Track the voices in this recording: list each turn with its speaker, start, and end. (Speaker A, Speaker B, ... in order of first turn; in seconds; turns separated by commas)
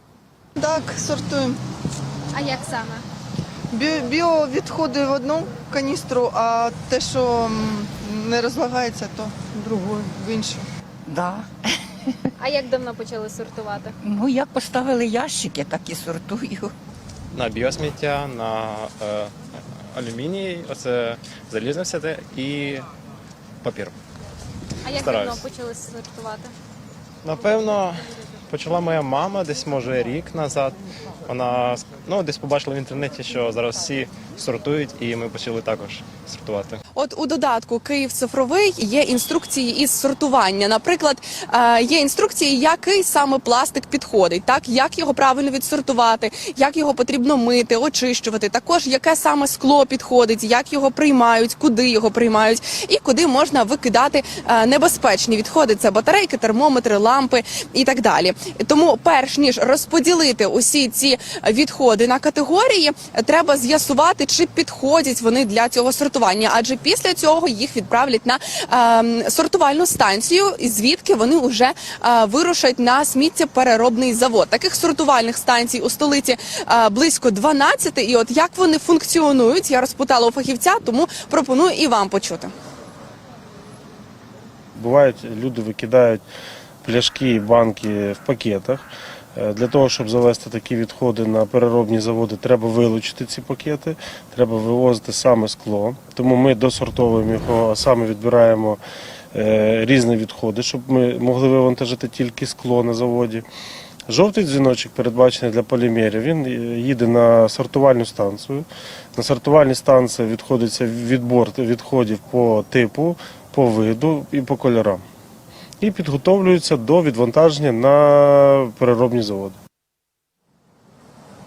Speaker A: 0.6-1.6, Speaker B: 2.3-3.0, Speaker A: 3.7-10.7, Speaker C: 11.1-11.5, Speaker B: 12.4-13.9, Speaker C: 14.0-16.7, Speaker D: 17.3-22.9, Speaker D: 23.6-23.9, Speaker B: 24.8-26.5, Speaker D: 24.9-25.4, Speaker D: 27.2-36.8, Speaker E: 36.9-82.5, Speaker F: 84.7-86.2, Speaker F: 86.8-98.8, Speaker F: 99.3-103.4, Speaker F: 104.1-115.0, Speaker F: 115.8-119.6